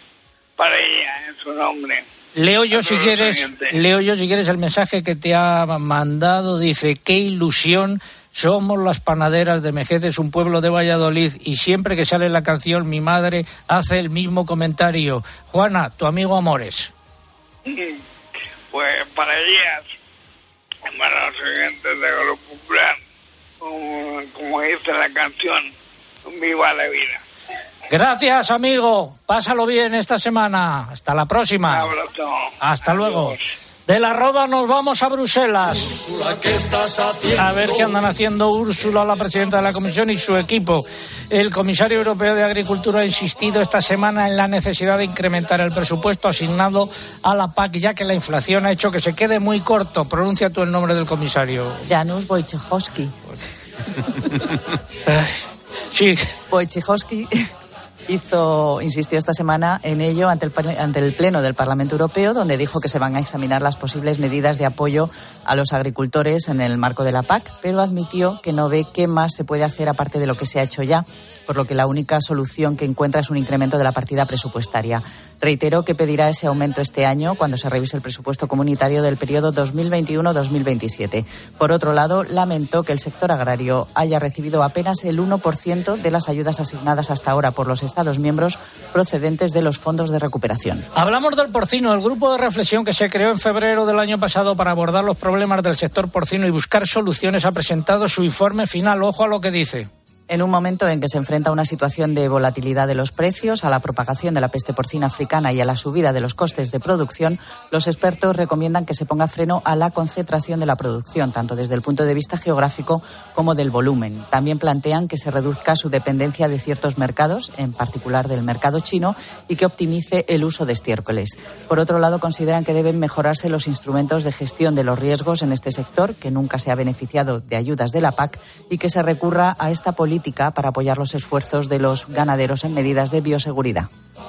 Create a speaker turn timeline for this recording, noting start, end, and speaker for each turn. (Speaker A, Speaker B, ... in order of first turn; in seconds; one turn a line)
Speaker A: 0.6-2.0
Speaker B: 2.4-16.9
Speaker A: 2.7-3.8
Speaker A: 17.7-18.0
Speaker A: 18.7-19.9
Speaker A: 20.9-23.0
Speaker A: 23.6-25.7
Speaker A: 26.3-27.2
Speaker B: 27.9-31.9
Speaker A: 31.7-33.4
Speaker B: 32.6-33.4
Speaker B: 33.9-36.0
Speaker B: 37.4-51.9
Speaker C: 51.9-53.1
Speaker B: 55.1-55.4
Speaker B: 55.9-56.3
Speaker C: 56.5-57.5
Speaker C: 58.1-90.9
Speaker B: 90.9-99.9
Speaker C: 100.3-133.9